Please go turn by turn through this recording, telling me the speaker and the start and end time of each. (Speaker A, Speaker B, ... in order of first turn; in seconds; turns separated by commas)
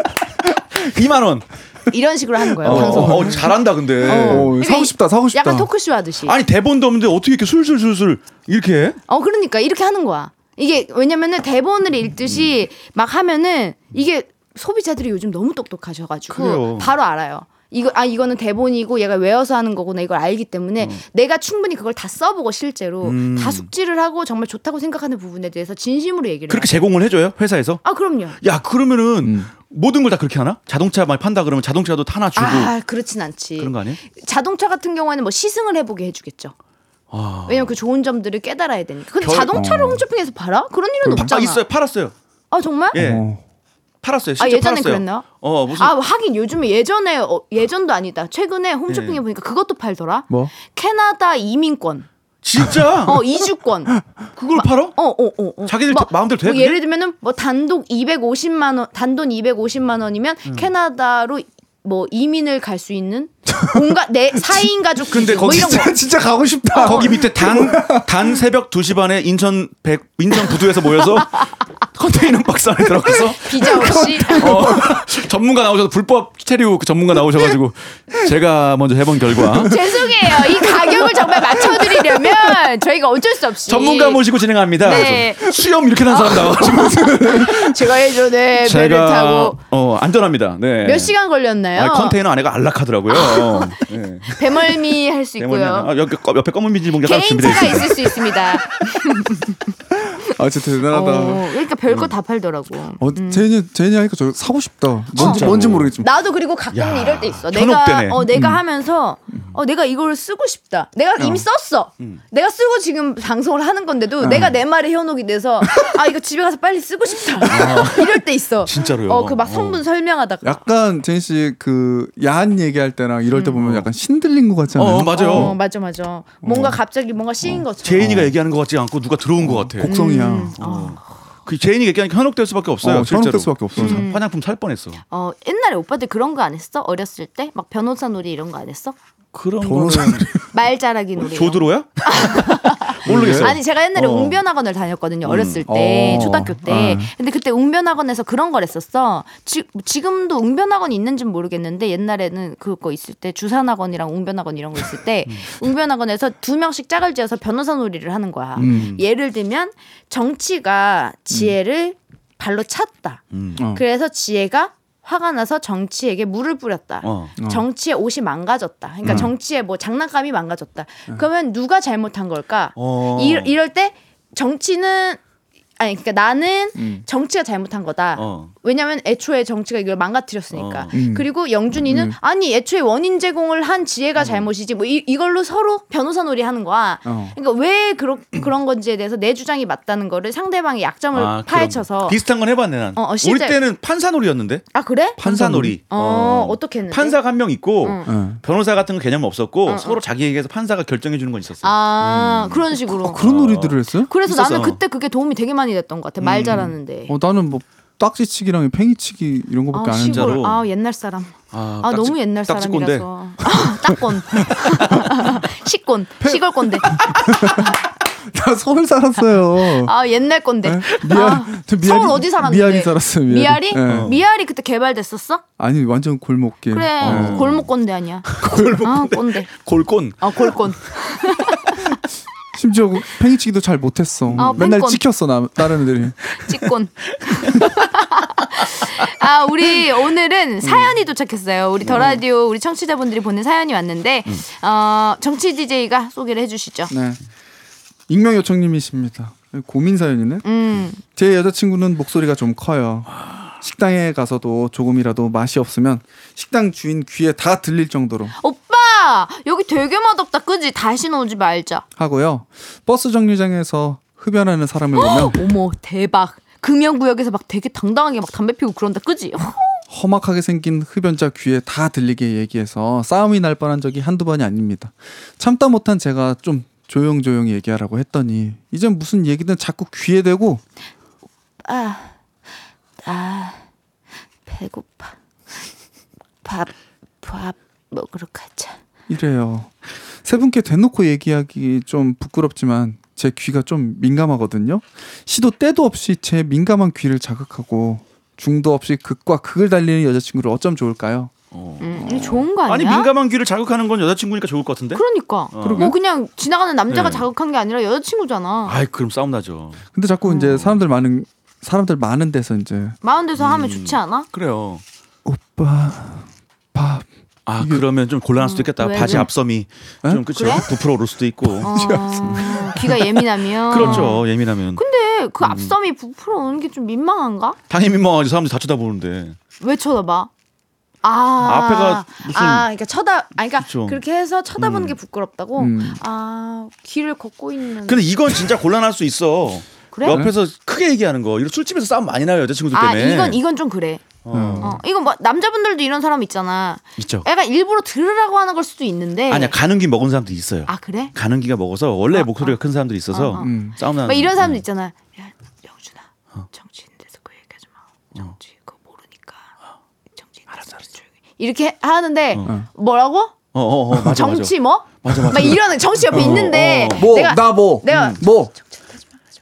Speaker A: 0.7-1.5, Speaker B: 1.9-6.3, Speaker C: 2.6-5.7, Speaker A: 2.6-4.5, Speaker A: 6.2-9.0, Speaker B: 9.1-26.8, Speaker A: 16.3-16.9, Speaker A: 23.0-23.7, Speaker A: 26.5-27.8, Speaker B: 27.8-28.4, Speaker A: 28.4-32.7, Speaker C: 29.2-29.5, Speaker B: 32.4-36.5, Speaker A: 33.6-34.0, Speaker A: 37.1-37.8, Speaker B: 37.5-41.6, Speaker A: 39.2-39.6, Speaker C: 39.5-40.0, Speaker A: 41.1-42.1, Speaker B: 42.5-43.0, Speaker A: 42.9-43.2, Speaker C: 42.9-43.4, Speaker A: 44.0-45.9, Speaker B: 44.4-52.1, Speaker A: 48.9-49.2, Speaker A: 52.4-53.2, Speaker B: 53.0-54.0, Speaker A: 54.3-55.0, Speaker B: 54.5-66.0, Speaker A: 55.6-56.8, Speaker C: 63.5-68.4, Speaker A: 65.1-65.9, Speaker B: 66.7-67.2, Speaker A: 66.8-82.4, Speaker C: 72.8-75.1, Speaker B: 73.3-74.7, Speaker C: 79.4-79.7, Speaker B: 79.5-84.2, Speaker A: 83.7-91.1, Speaker B: 84.8-89.6, Speaker C: 86.6-87.7, Speaker B: 90.8-92.2, Speaker A: 91.7-98.4, Speaker B: 93.1-95.9, Speaker B: 97.0-99.6, Speaker C: 99.9-101.5, Speaker B: 100.8-103.5, Speaker C: 103.0-106.1, Speaker A: 105.2-106.0, Speaker B: 105.2-120.6, Speaker A: 106.7-108.3, Speaker C: 108.3-108.6, Speaker C: 111.2-111.4, Speaker C: 114.2-114.5, Speaker A: 117.4-119.8, Speaker C: 120.4-125.6, Speaker B: 123.3-123.6, Speaker A: 123.6-123.8, Speaker A: 124.7-125.5, Speaker B: 125.1-128.2, Speaker C: 126.4-126.8, Speaker C: 127.5-128.3, Speaker A: 127.8-129.9, Speaker C: 129.4-130.6, Speaker B: 129.8-131.0, Speaker A: 130.6-135.0, Speaker C: 132.8-134.1, Speaker B: 133.8-134.2, Speaker B: 135.1-138.9, Speaker A: 139.3-140.5, Speaker C: 139.6-140.4, Speaker B: 140.5-175.2, Speaker A: 141.2-144.4, Speaker C: 143.1-143.5, Speaker A: 145.2-146.5, Speaker C: 145.7-147.1, Speaker A: 158.6-159.0, Speaker C: 158.6-158.9, Speaker A: 163.3-163.6, Speaker C: 163.6-163.8, Speaker A: 167.0-167.3, Speaker C: 167.4-167.6, Speaker A: 169.0-169.3, Speaker A: 172.8-173.5, Speaker B: 175.8-192.2, Speaker C: 176.8-177.0, Speaker A: 178.2-178.5, Speaker A: 180.5-180.9, Speaker C: 180.9-181.3, Speaker C: 181.8-182.1, Speaker A: 184.2-184.4, Speaker C: 187.0-187.3, Speaker A: 191.1-194.7, Speaker B: 192.9-193.6, Speaker B: 194.7-195.2, Speaker C: 195.2-195.8, Speaker A: 195.2-204.8, Speaker B: 195.9-197.2, Speaker B: 197.8-198.1, Speaker C: 198.1-198.4, Speaker B: 199.7-200.0, Speaker B: 201.6-203.3, Speaker C: 202.9-204.1, Speaker B: 204.1-207.1, Speaker A: 206.2-206.7, Speaker C: 207.1-210.4, Speaker B: 209.7-217.7, Speaker A: 209.9-210.6, Speaker A: 211.5-213.1, Speaker A: 214.6-215.4, Speaker C: 216.2-219.9, Speaker B: 219.5-225.4, Speaker C: 220.6-224.1, Speaker A: 223.8-224.2, Speaker C: 225.6-227.5, Speaker B: 226.7-229.5, Speaker A: 227.0-227.7, Speaker A: 228.3-231.6, Speaker B: 230.2-231.9, Speaker C: 232.5-236.2, Speaker A: 234.3-234.6, Speaker B: 234.4-235.0, Speaker B: 236.4-246.9, Speaker A: 237.1-237.8, Speaker A: 241.9-242.2, Speaker C: 246.9-247.2, Speaker C: 248.1-250.4, Speaker B: 250.4-251.0, Speaker C: 251.0-258.3, Speaker B: 258.3-261.8, Speaker C: 262.0-265.4, Speaker B: 264.9-269.8, Speaker C: 269.9-280.6, Speaker B: 281.6-282.2, Speaker B: 283.0-283.6, Speaker B: 284.4-285.1, Speaker B: 286.4-288.8, Speaker C: 289.1-301.3, Speaker A: 301.5-302.0, Speaker B: 301.8-303.1, Speaker C: 302.0-302.5, Speaker A: 302.6-305.9, Speaker B: 304.9-308.8, Speaker C: 305.6-305.9, Speaker A: 306.9-307.3, Speaker A: 308.6-309.8, Speaker C: 309.9-313.0, Speaker B: 310.3-310.5, Speaker A: 310.5-310.8, Speaker B: 313.0-314.3, Speaker A: 313.4-314.8, Speaker C: 315.2-317.1, Speaker A: 317.5-322.7, Speaker B: 318.4-319.3, Speaker C: 319.0-319.3, Speaker B: 320.3-320.7, Speaker B: 321.6-327.6, Speaker C: 321.6-324.1, Speaker A: 323.7-324.8, Speaker A: 325.4-325.7, Speaker A: 327.7-329.4, Speaker B: 329.6-330.3, Speaker B: 331.0-338.1, Speaker A: 331.4-332.7, Speaker A: 333.6-334.0, Speaker A: 334.6-334.9, Speaker C: 335.6-336.0, Speaker A: 337.9-343.4, Speaker B: 339.9-340.2, Speaker C: 340.1-340.3, Speaker B: 342.7-349.5, Speaker A: 344.2-344.8, Speaker C: 344.3-344.8, Speaker A: 347.0-347.3, Speaker A: 349.3-354.6, Speaker B: 350.7-351.1, Speaker B: 352.1-352.6, Speaker B: 353.1-359.5, Speaker C: 353.4-353.7, Speaker B: 360.1-363.4, Speaker A: 363.5-367.1, Speaker B: 363.9-369.1, Speaker C: 367.0-368.5, Speaker A: 367.9-368.2